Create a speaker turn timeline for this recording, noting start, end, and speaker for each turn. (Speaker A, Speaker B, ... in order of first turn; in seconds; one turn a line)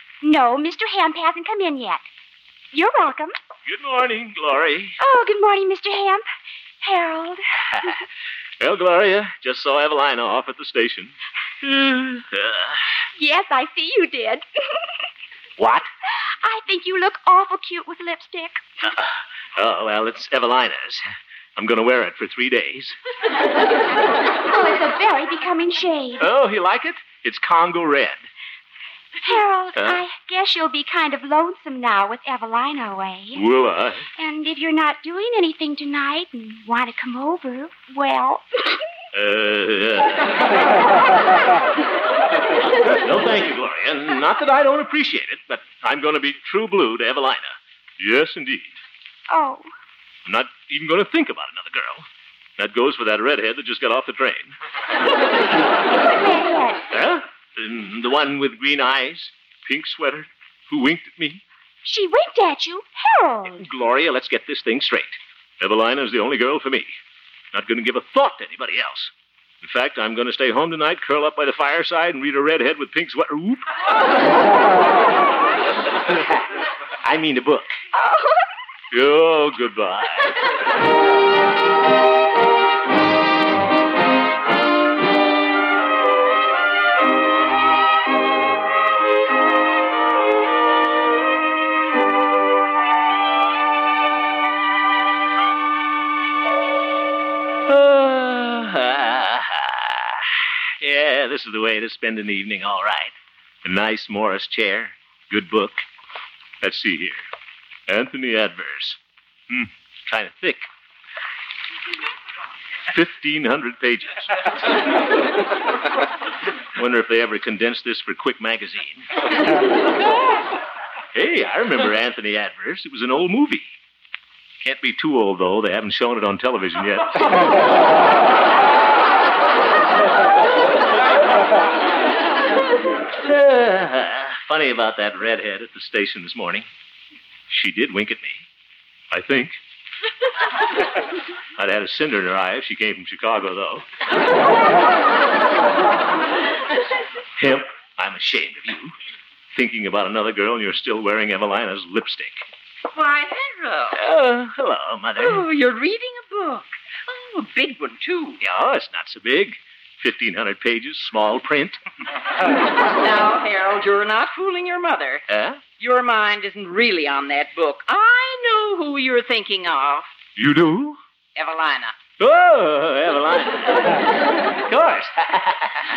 Speaker A: 0.2-2.0
Speaker A: 2.7-3.3
Speaker B: 3.6-5.0
Speaker A: 5.0-6.2
Speaker A: 6.8-7.4
Speaker B: 8.6-12.9
Speaker A: 13.2-14.4
Speaker B: 15.6-15.9
Speaker A: 16.4-18.6
Speaker B: 18.9-21.0
Speaker B: 21.6-22.9
Speaker A: 24.5-26.3
Speaker B: 26.2-28.3
Speaker A: 29.2-33.4
Speaker B: 29.7-30.0
Speaker B: 33.3-34.1
Speaker A: 34.2-38.4
Speaker B: 39.1-40.5
Speaker B: 42.8-48.8
Speaker A: 49.3-49.7
Speaker B: 50.2-52.0
Speaker B: 52.6-54.5
Speaker A: 56.2-56.8
Speaker B: 56.9-61.4
Speaker A: 61.8-63.6
Speaker B: 63.6-66.9
Speaker B: 67.5-73.6
Speaker B: 76.0-76.4
Speaker B: 77.0-77.8
Speaker B: 78.9-80.4
Speaker B: 97.7-100.3
Speaker B: 100.8-105.9
Speaker B: 106.6-107.2
Speaker B: 107.9-110.7
Speaker B: 112.9-114.5
Speaker B: 116.8-119.1
Speaker B: 121.1-123.7
Speaker B: 124.6-127.5
Speaker B: 133.2-136.7
Speaker B: 137.5-138.4
Speaker B: 139.1-139.6
Speaker B: 141.6-143.9
Speaker B: 147.4-148.9
Speaker B: 149.5-152.4
Speaker C: 152.9-154.0
Speaker B: 153.9-155.4
Speaker C: 155.2-158.4
Speaker B: 158.4-161.8
Speaker C: 162.8-170.1
Speaker B: 165.3-165.6
Speaker B: 170.3-171.0
Speaker C: 171.3-171.9
Speaker B: 172.2-174.1
Speaker B: 174.6-175.8